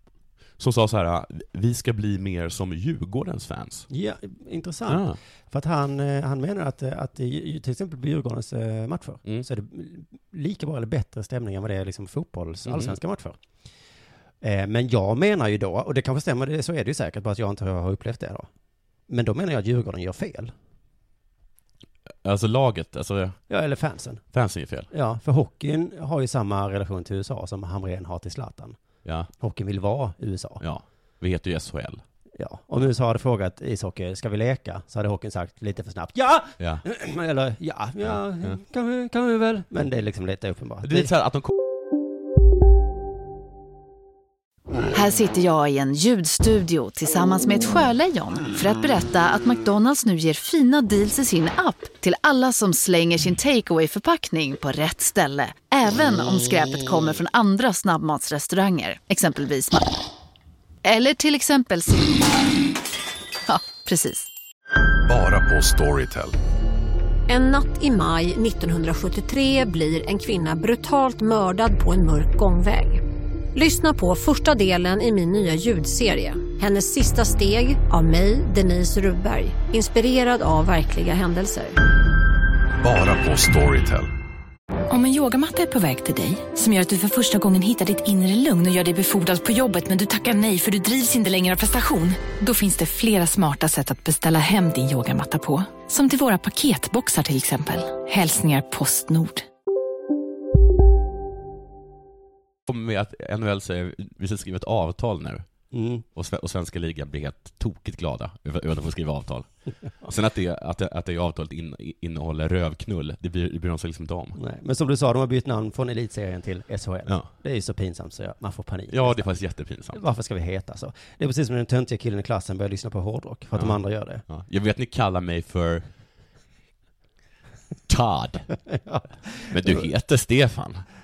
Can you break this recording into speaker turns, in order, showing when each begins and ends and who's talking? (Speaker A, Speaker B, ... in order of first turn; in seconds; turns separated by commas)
Speaker A: 0.6-3.9, Speaker B: 3.9-13.4, Speaker A: 4.9-5.2, Speaker A: 12.7-12.9, Speaker B: 14.4-18.5, Speaker B: 19.1-20.5, Speaker A: 22.2-23.4, Speaker B: 23.5-24.2, Speaker A: 24.3-24.9, Speaker B: 24.9-28.8, Speaker B: 29.4-30.6, Speaker A: 30.6-32.0, Speaker B: 32.4-41.1, Speaker A: 38.0-38.6, Speaker A: 40.8-41.5, Speaker C: 44.9-59.8, Speaker C: 60.9-62.3, Speaker C: 63.5-64.3, Speaker D: 65.1-66.4, Speaker E: 67.3-73.0, Speaker E: 73.5-81.8, Speaker D: 82.8-84.1, Speaker F: 85.2-86.4, Speaker F: 87.3-91.2, Speaker F: 92.4-99.4, Speaker A: 102.7-105.4, Speaker B: 105.7-106.0, Speaker A: 106.1-109.5, Speaker A: 110.0-114.4, Speaker B: 114.4-119.3, Speaker A: 118.9-120.0, Speaker B: 119.9-124.2, Speaker A: 123.5-125.8, Speaker A: 127.9-128.5, Speaker B: 128.7-129.9, Speaker A: 129.5-130.9